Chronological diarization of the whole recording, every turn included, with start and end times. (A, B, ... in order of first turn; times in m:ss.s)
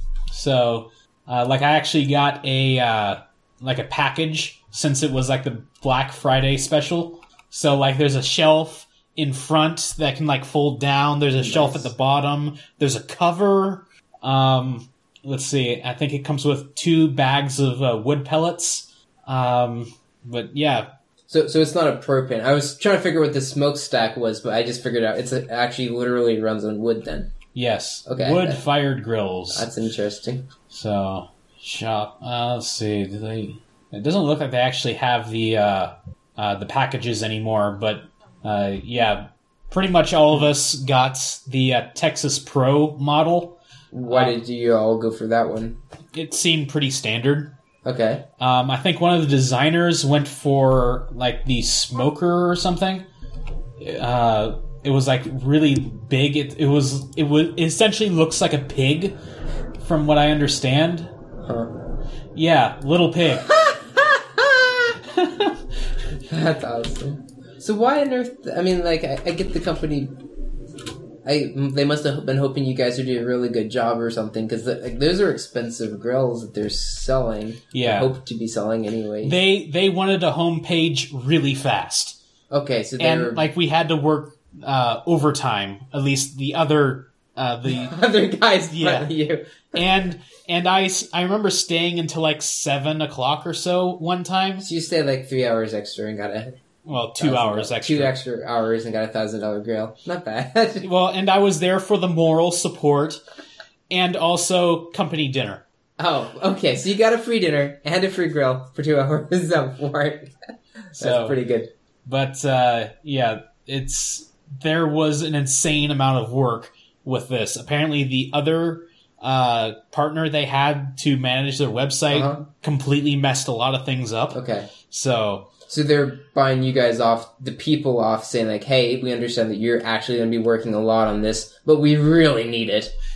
0:00.3-0:20.9 A
0:11.4-0:11.9 B
0:21.3-0:27.3 B
0:27.6-0:29.7 A
0:28.1-0:28.6 B
0:29.5-0:30.5 B
0:30.7-0:44.4 A
0:43.9-0:45.8 B
0:46.1-0:47.5 A
0:47.8-0:48.2 B
0:48.4-0:53.1 A
0:53.8-0:59.2 A
0:59.8-1:01.1 A
1:01.4-1:01.7 B
1:02.4-1:03.5 A
1:03.4-1:05.0 B
1:05.1-1:05.6 A
1:06.3-1:10.2 B
1:11.2-1:19.4 B
1:17.7-1:18.1 A
1:19.2-1:22.2 A
1:22.5-1:23.5 B
1:23.0-1:27.9 A
1:27.7-1:29.8 B
1:28.7-1:29.1 A
1:29.8-1:34.7 A
1:34.6-1:36.6 B
1:36.9-1:38.1 A
1:37.2-1:40.9 B
1:40.8-1:43.2 A
1:43.9-1:45.6 A
1:46.0-1:50.3 B
1:50.9-1:51.7 B
1:51.0-1:51.4 A
1:52.1-2:04.4 A
2:02.1-2:02.4 B
2:04.3-2:04.7 B
2:04.9-2:05.5 A
2:05.7-2:12.9 B